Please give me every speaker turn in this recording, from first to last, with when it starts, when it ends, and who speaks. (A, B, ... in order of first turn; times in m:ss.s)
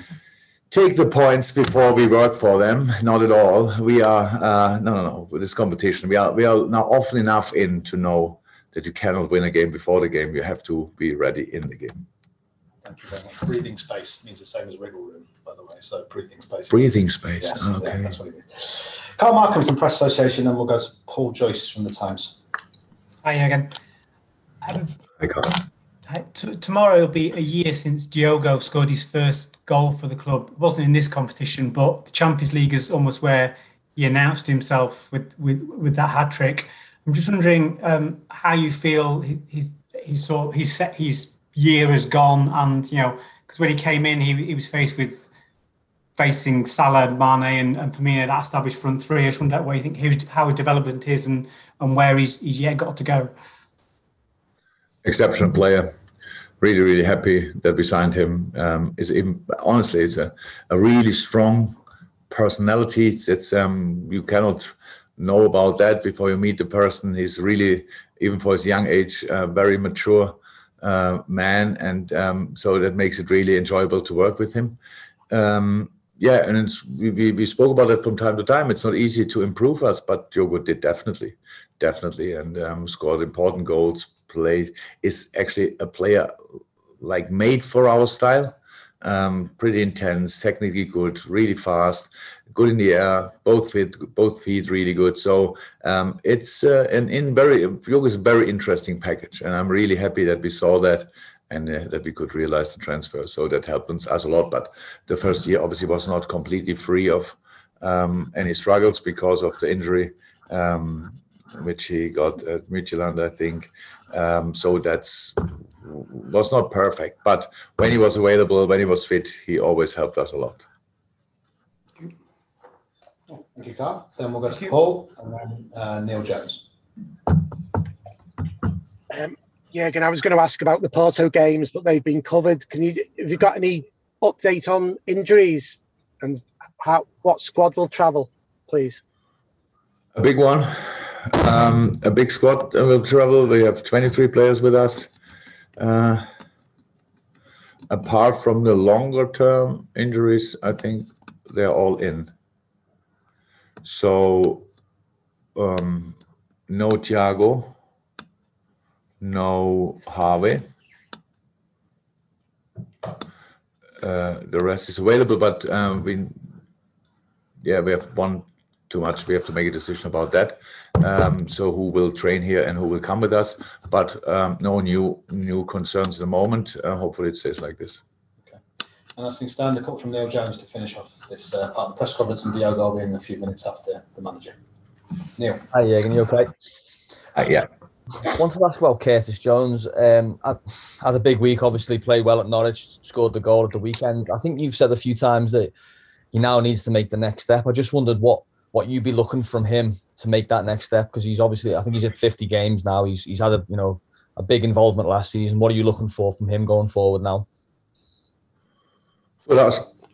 0:00.7-0:12.0 A
0:12.8-0:22.4 B
0:16.7-0:18.1 A
0:23.2-0:23.7 C
0:24.6-0:24.9 C
0:25.2-0:25.6 A
0:26.1-0:45.3 C
0:46.2-0:53.3 C
0:55.0-0:55.9 A
0:56.6-1:01.8 A
1:02.3-1:14.8 A
1:15.3-1:26.3 A
1:27.0-2:00.6 A
2:03.3-2:06.6 B
2:09.1-2:19.0 D
2:20.2-2:25.1 A
2:25.8-2:26.2 A
2:27.9-2:32.3 A
2:33.8-2:34.7 A
2:35.6-2:36.2 A
2:36.7-2:37.8 A
2:39.2-2:40.6 A
2:44.0-2:46.5 A
2:47.6-2:58.0 A
2:59.2-3:04.6 B
3:05.3-3:05.8 B
3:05.7-3:06.5 E
3:07.4-3:07.7 A
3:08.3-3:15.7 E
3:16.3-3:27.4 E
3:29.4-3:29.9 A